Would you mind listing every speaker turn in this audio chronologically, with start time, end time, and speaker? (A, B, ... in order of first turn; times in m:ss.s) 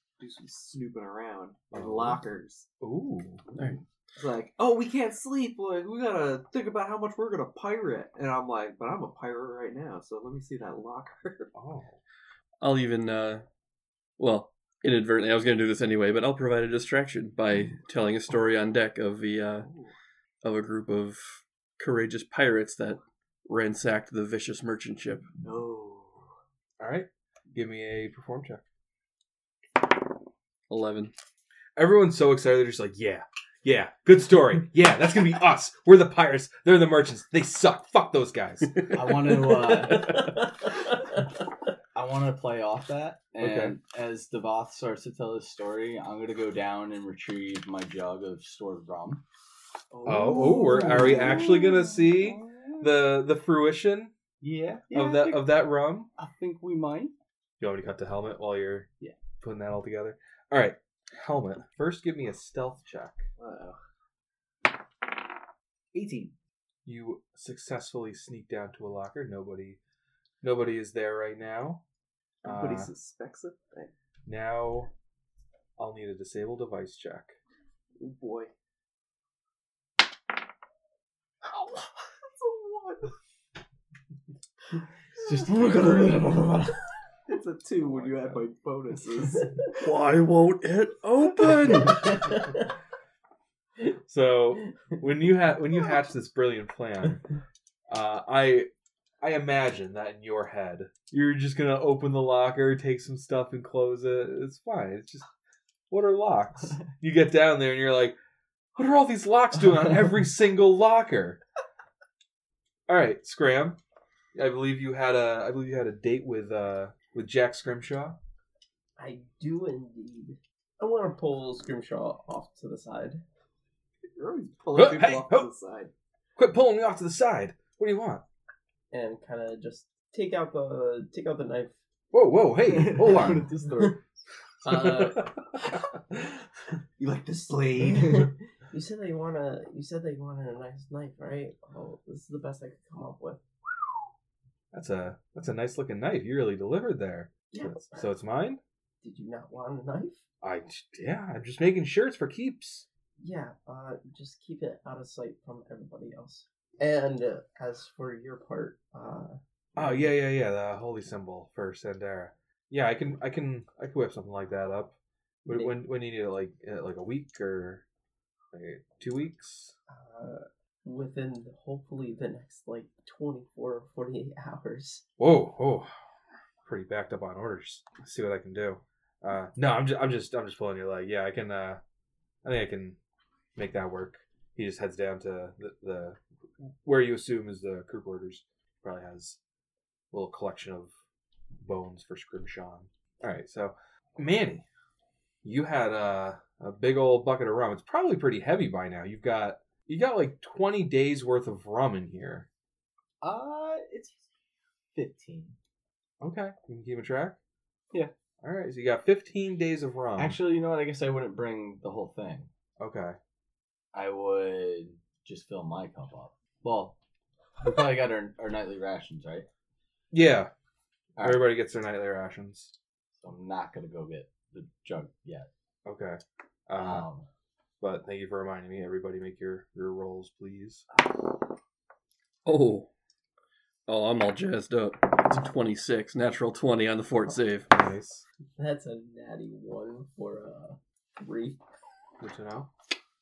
0:00.2-0:02.7 A
0:01.7-0:02.2 B
0:02.8-0:03.4 B
0:03.5-0:11.5 A
0:11.5-0:12.0 B
0:12.6-0:13.4 C
0:14.2-0:19.7 C
0:19.6-0:19.9 A
0:20.4-0:25.2 C
0:25.4-0:26.3 A
0:26.8-0:28.6 B
0:30.7-0:31.1 C
0:31.8-0:39.8 B
0:38.9-0:40.3 D
0:40.0-0:40.7 E
0:41.9-0:49.2 D
0:43.4-0:43.8 B
0:49.9-0:51.3 A
0:50.0-0:52.9 D
0:50.0-0:54.1 B
0:54.4-0:55.5 D
0:54.9-0:56.1 B
0:56.2-0:57.1 D
0:57.6-0:58.9 B
0:59.4-1:03.2 B
1:03.4-1:03.8 A
1:05.9-1:06.3 A
1:06.8-1:09.8 B
1:10.4-1:11.8 B
1:12.4-1:13.9 A
1:12.4-1:12.9 B
1:14.2-1:14.9 B
1:15.8-1:17.3 B
1:18.0-1:18.5 A
1:21.4-1:23.1 A
1:25.2-1:26.8 D
1:27.3-1:29.6 A
1:29.7-1:32.3 C
1:32.1-1:32.5 E
1:34.1-1:37.2 B
1:37.9-1:38.7 B
1:39.2-1:45.2 B
1:45.9-1:48.2 B
1:48.7-1:51.4 B
1:52.9-1:53.8 B
1:54.3-1:58.2 B
1:59.0-2:03.2 E
2:04.1-2:05.9 A
2:04.7-2:05.5 B
2:06.4-2:08.2 B
2:08.9-2:11.8 E
2:12.1-2:13.5 B
2:12.6-2:14.0 D
2:14.6-2:15.3 E
2:14.6-2:15.3 B
2:17.0-2:18.3 A
2:17.8-2:23.4 E
2:24.7-2:28.6 B
2:27.5-2:28.1 E
2:29.0-2:30.2 E
2:30.4-2:32.9 B
2:33.2-2:40.1 E
2:39.8-2:44.9 B
2:45.4-2:45.7 E
2:45.4-2:47.8 B
2:48.5-2:49.8 B
2:49.9-2:55.0 E
2:55.2-2:55.9 B
2:56.6-3:01.8 B
3:02.4-3:03.0 B
3:03.6-3:09.4 B
3:10.1-3:10.9 B
3:11.6-3:14.6 B
3:15.4-3:22.5 B
3:23.2-3:24.3 D
3:24.9-3:25.6 D
3:26.2-3:27.4 B
3:28.4-3:30.4 B
3:30.2-3:32.5 D
3:32.8-3:33.2 B
3:33.9-3:37.0 D
3:37.6-3:39.5 D
3:40.1-3:40.5 B
3:41.2-3:41.5 D
3:41.2-3:42.7 B
3:43.1-3:45.5 D
3:45.8-3:47.1 B
3:46.8-3:47.3 D
3:47.8-3:50.8 B
3:52.4-3:52.9 C
3:53.9-3:57.7 C
3:57.7-3:58.2 B
3:58.6-4:01.6 E
4:02.2-4:02.7 B